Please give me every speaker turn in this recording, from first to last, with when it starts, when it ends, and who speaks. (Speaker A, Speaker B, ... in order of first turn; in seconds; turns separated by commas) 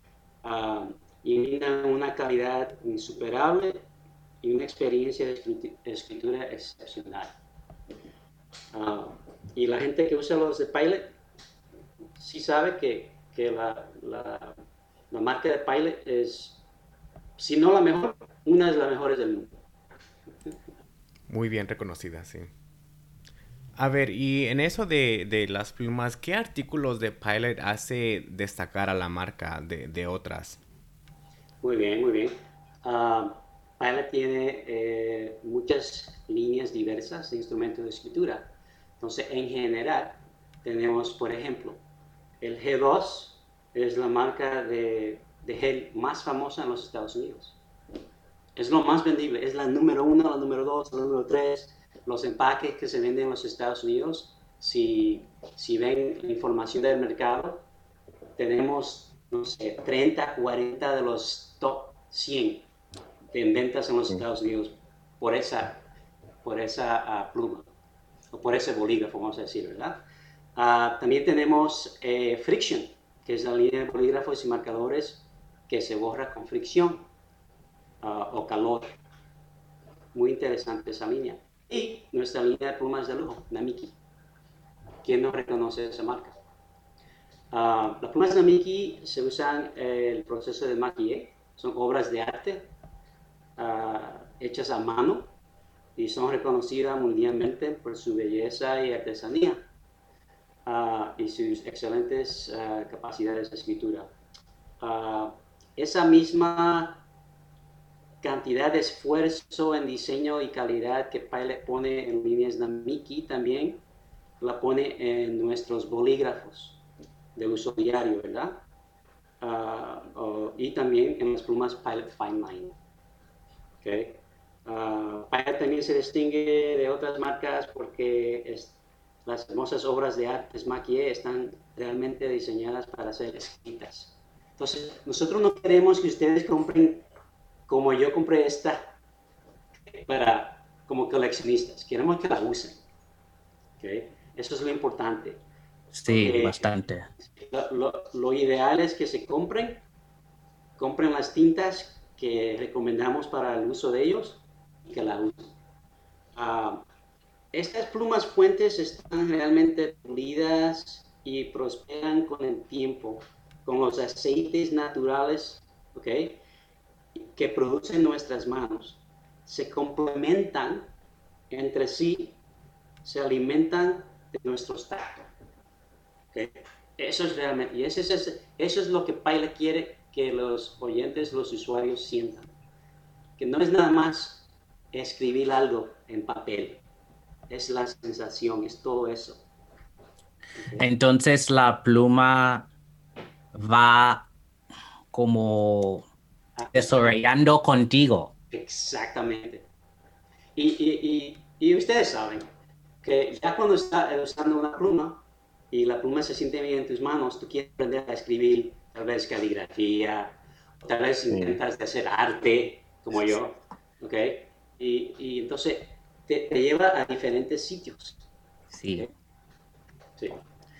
Speaker A: 0.4-3.8, Speaker A: 4.4-7.3, Speaker A: 8.7-11.1, Speaker A: 12.2-14.6, Speaker A: 15.1-16.6, Speaker A: 17.4-19.5, Speaker B: 21.3-22.5, Speaker B: 23.8-30.6, Speaker A: 31.6-41.8, Speaker A: 42.4-47.6, Speaker A: 48.6-57.6, Speaker A: 58.4-62.6, Speaker A: 63.3-65.8, Speaker A: 66.4-67.7, Speaker A: 68.3-70.0, Speaker A: 70.6-77.0, Speaker A: 78.0-78.9, Speaker A: 80.1-84.0, Speaker A: 85.0-86.4, Speaker A: 87.5-92.7, Speaker A: 93.6-95.3, Speaker A: 96.0-99.6, Speaker A: 100.7-104.1, Speaker A: 104.8-107.0, Speaker A: 108.2-113.8, Speaker A: 114.4-116.8, Speaker A: 117.3-118.6, Speaker A: 119.4-122.7, Speaker A: 123.8-137.1, Speaker A: 137.7-138.9, Speaker A: 139.9-142.8, Speaker A: 143.8-145.4, Speaker C: 145.9-147.1, Speaker A: 146.1-149.8, Speaker A: 150.8-155.5, Speaker A: 156.3-156.8, Speaker A: 157.5-166.4, Speaker A: 167.2-170.9, Speaker A: 171.5-172.4, Speaker A: 173.0-175.3, Speaker A: 176.3-182.5, Speaker A: 183.4-186.8, Speaker A: 187.5-189.4, Speaker A: 190.6-190.8, Speaker C: 190.8-192.7, Speaker C: 193.5-194.3, Speaker C: 195.1-196.1, Speaker A: 196.6-197.1, Speaker C: 196.7-198.3, Speaker A: 198.5-199.7, Speaker A: 200.6-202.5, Speaker A: 203.0-218.2, Speaker C: 218.7-219.1